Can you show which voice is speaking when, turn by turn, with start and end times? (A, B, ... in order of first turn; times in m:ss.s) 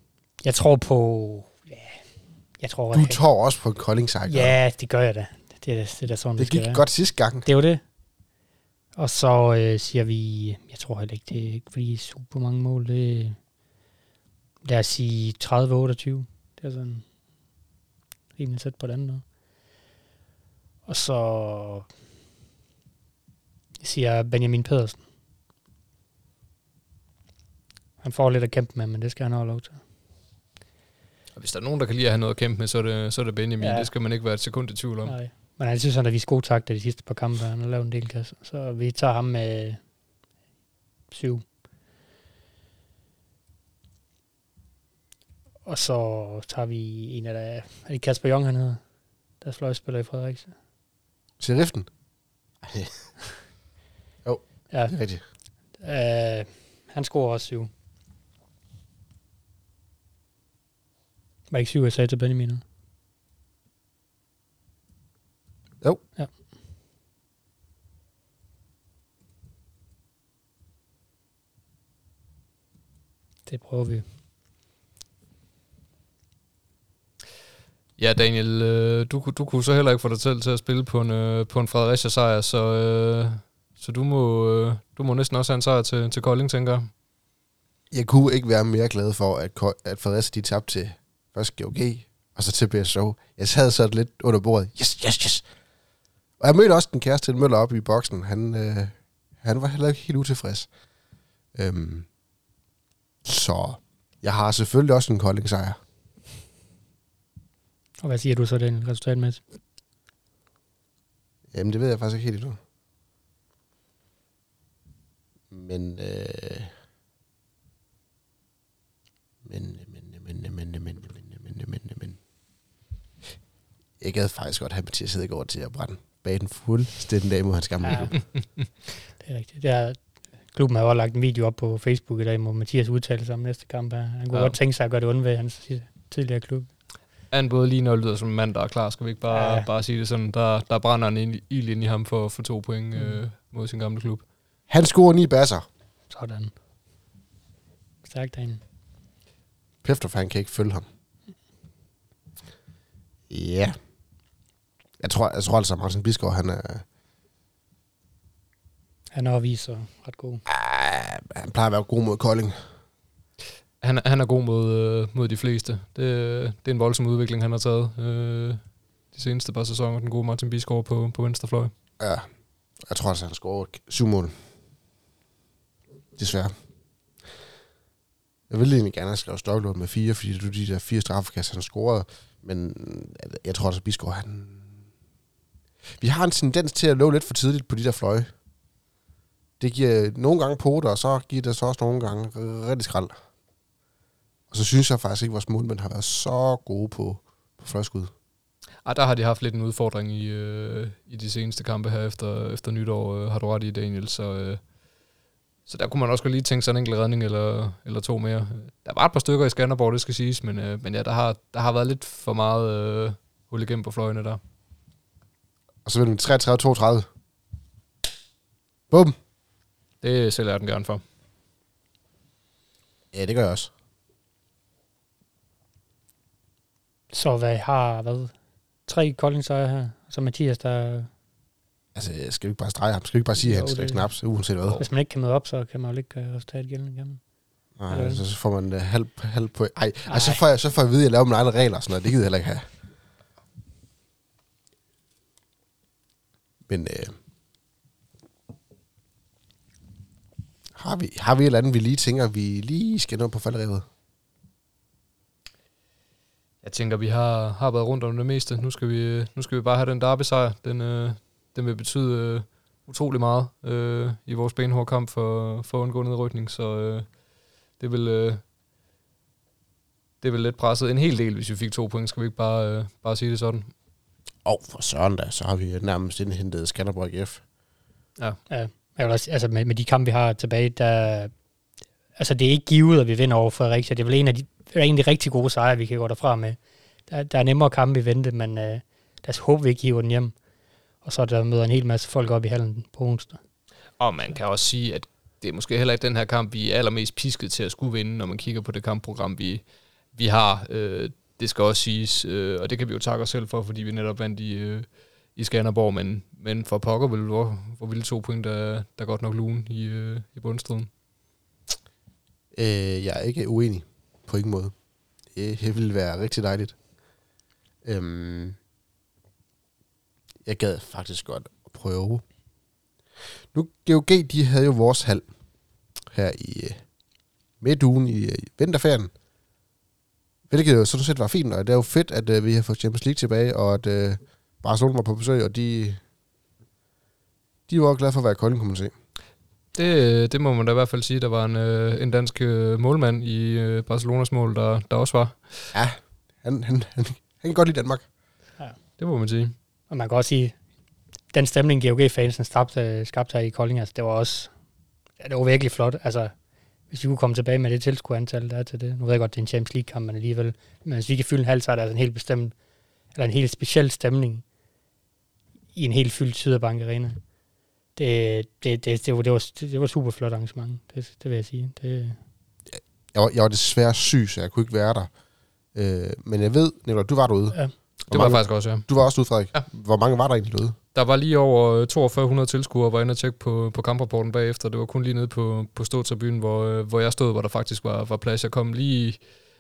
0:00.4-0:02.0 A
0:02.6-0:03.2 A
0:02.9-0:04.5 B
0:04.3-0:06.8 A
0:06.4-0:07.4 B
0:07.4-0:07.8 A
0:09.0-0:13.4 A
0:14.6-0:17.0 A
0:18.4-0:19.2 A
0:20.9-0:21.9 A
0:23.8-0:25.0 A
0:28.0-0:29.8 A
0:31.3-0:35.1 C
0:33.6-0:33.9 A
0:35.0-0:39.8 A
0:41.1-0:41.4 A
0:45.6-0:48.8 A
0:49.4-0:50.5 A
0:51.4-0:51.9 B
0:52.6-0:52.9 B
0:54.2-0:55.2 B
0:55.8-0:57.7 A
1:01.5-1:02.6 A
1:13.5-1:14.0 A
1:18.0-1:26.9 C
1:27.9-1:35.4 B
1:36.4-1:40.7 B
1:41.5-1:42.1 B
1:43.2-1:45.8 B
1:48.0-1:49.4 A
1:51.5-1:52.6 B
1:55.5-1:56.7 B
1:59.4-2:02.2 B
2:04.0-2:08.2 B
2:07.8-2:08.1 A
2:09.2-2:10.0 A
2:10.5-2:16.7 A
2:17.3-2:24.2 C
2:19.3-2:19.7 A
2:22.9-2:23.2 A
2:24.7-2:25.6 B
2:26.1-2:26.5 A
2:28.0-2:28.6 A
2:29.8-2:30.9 B
2:33.3-2:33.8 B
2:35.0-2:36.8 B
2:39.1-2:40.4 A
2:40.5-2:42.6 B
2:43.8-2:48.6 C
2:49.1-2:51.7 C
2:52.0-2:52.3 B
2:52.9-2:54.3 B
2:56.2-2:56.5 B
2:58.5-3:04.8 B
3:06.0-3:08.3 B
3:09.6-3:13.1 B
3:14.5-3:18.1 B
3:18.8-3:24.6 C
3:25.7-3:34.4 C
3:35.8-3:37.1 B
3:38.9-3:39.2 B
3:40.0-3:41.0 C
3:43.1-3:43.7 B
3:47.1-3:48.3 A
3:48.9-3:51.1 A
3:51.9-3:54.8 B
3:53.4-3:54.0 A
3:54.8-3:57.2 A
3:57.8-4:02.7 B
3:57.9-3:58.2 A
4:00.1-4:00.4 A
4:06.7-4:07.2 B
4:10.7-4:13.9 B
4:16.6-4:27.1 C
4:27.8-4:28.4 C
4:30.2-4:33.7 C
4:34.4-4:37.4 B
4:38.5-4:41.3 A
4:42.2-4:50.3 A
4:51.0-4:53.4 A
4:54.0-4:59.6 C
5:00.1-5:10.9 C
5:12.5-5:14.7 B
5:15.3-5:16.8 B
5:17.8-5:18.6 B
5:20.4-5:22.2 B
5:23.5-5:25.3 B
5:26.1-5:26.8 B
5:27.6-5:29.1 B
5:30.5-5:36.0 B
5:37.7-5:38.9 B
5:39.7-5:45.7 C
5:45.7-5:48.0 B
5:49.0-5:49.5 C
5:49.9-5:50.6 A
5:51.3-5:54.5 A
5:55.2-5:56.3 A
5:56.9-6:02.5 A
6:03.1-6:04.4 A
6:05.8-6:07.2 A
6:08.0-6:12.2 A
6:12.7-6:15.1 B
6:15.7-6:17.6 B
6:18.1-6:18.9 C
6:18.1-6:20.8 B
6:20.9-6:29.2 C